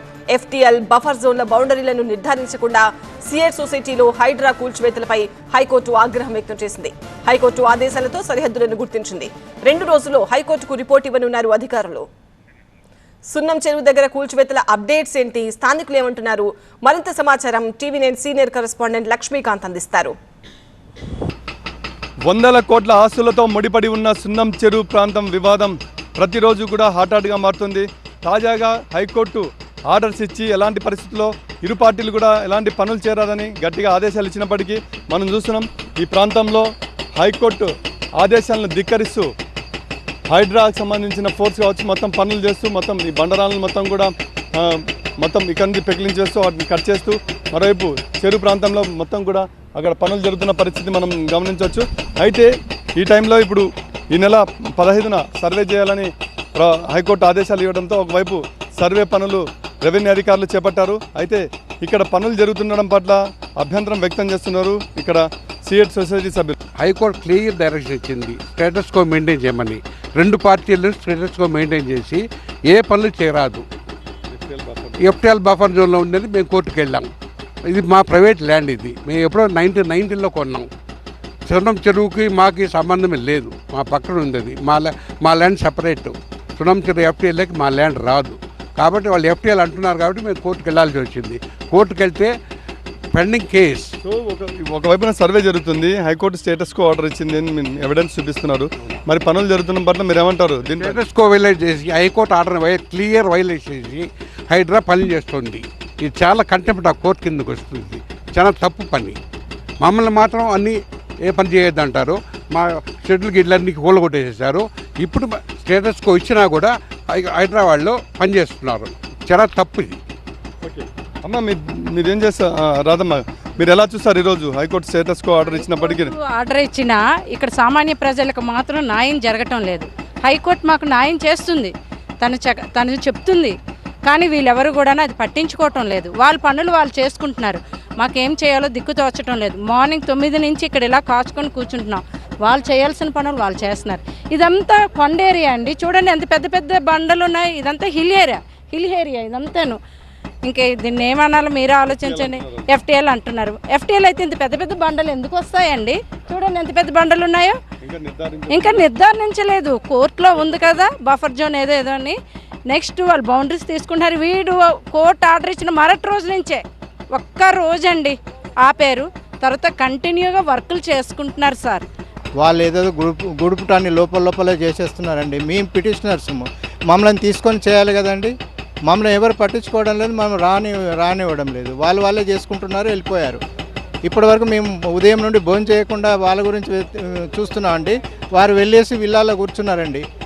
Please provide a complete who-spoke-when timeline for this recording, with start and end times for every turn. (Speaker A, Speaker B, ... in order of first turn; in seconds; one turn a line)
Speaker A: 0.3-12.0
Speaker A: 13.3-20.1
Speaker B: 22.2-39.3
Speaker B: 40.3-66.5
Speaker C: 66.8-73.6
Speaker B: 74.3-75.1
Speaker C: 75.0-77.1
Speaker C: 77.6-80.7
Speaker C: 81.5-92.3
Speaker C: 93.1-93.9
Speaker B: 94.0-101.0
Speaker C: 100.8-109.2
Speaker C: 109.8-120.0
Speaker B: 120.6-126.1
Speaker D: 125.6-133.5
Speaker D: 134.1-149.8
Speaker D: 150.4-157.6
Speaker B: 152.0-152.7
Speaker B: 157.8-158.8
Speaker D: 158.5-162.2
Speaker B: 160.3-160.9
Speaker D: 162.7-166.6
Speaker D: 167.1-171.8
Speaker E: 172.4-178.3
Speaker E: 178.8-183.4
Speaker E: 184.1-190.0